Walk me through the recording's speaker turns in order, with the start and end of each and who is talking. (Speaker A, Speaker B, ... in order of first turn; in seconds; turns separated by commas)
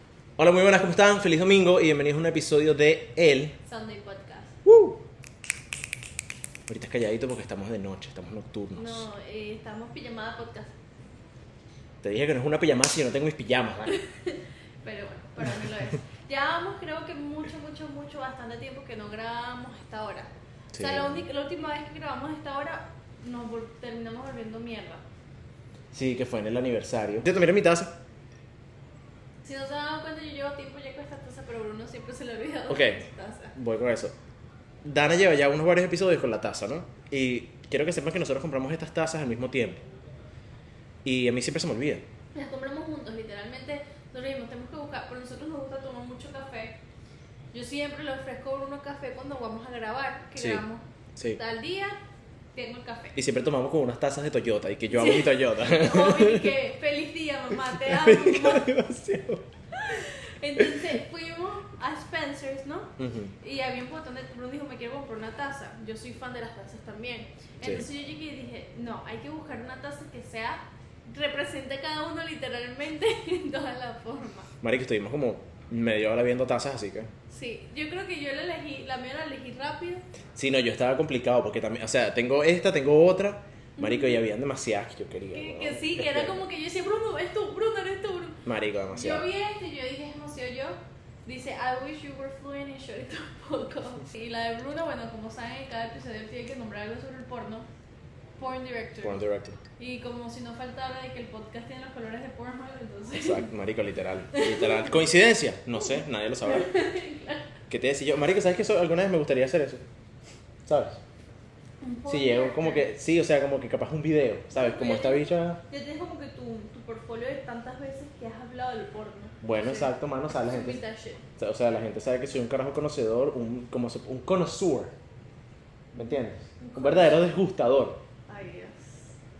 Speaker A: 0.4-3.5, Speaker B: 3.6-4.5, Speaker A: 4.6-5.0, Speaker A: 6.7-9.1, Speaker B: 8.7-10.7, Speaker A: 12.0-14.0, Speaker B: 13.9-25.0, Speaker A: 20.7-21.2, Speaker A: 25.9-27.9, Speaker B: 29.4-33.5, Speaker A: 32.7-34.1, Speaker A: 34.8-39.8, Speaker A: 41.0-42.0, Speaker B: 42.3-46.8, Speaker B: 47.5-50.8, Speaker A: 50.4-50.6, Speaker B: 51.4-52.0, Speaker B: 52.5-53.2, Speaker A: 53.1-56.5, Speaker B: 54.9-58.7, Speaker A: 57.7-59.4, Speaker B: 59.7-74.5, Speaker A: 60.6-60.9, Speaker A: 63.0-63.3, Speaker A: 74.6-77.1, Speaker B: 77.3-80.0, Speaker A: 80.3-86.4, Speaker B: 83.8-84.2, Speaker B: 85.3-88.4, Speaker A: 88.5-89.3, Speaker B: 88.9-97.7, Speaker B: 98.4-99.2, Speaker A: 99.0-99.6, Speaker B: 99.8-103.5, Speaker A: 103.2-106.7, Speaker B: 104.3-105.1, Speaker B: 105.8-107.5, Speaker A: 107.7-109.8, Speaker A: 110.7-111.0, Speaker B: 111.8-112.9, Speaker A: 112.1-115.6, Speaker B: 114.5-119.9, Speaker A: 119.4-120.8, Speaker B: 120.5-121.2, Speaker A: 121.4-124.9, Speaker B: 125.9-127.2, Speaker A: 126.0-128.0, Speaker B: 128.3-129.2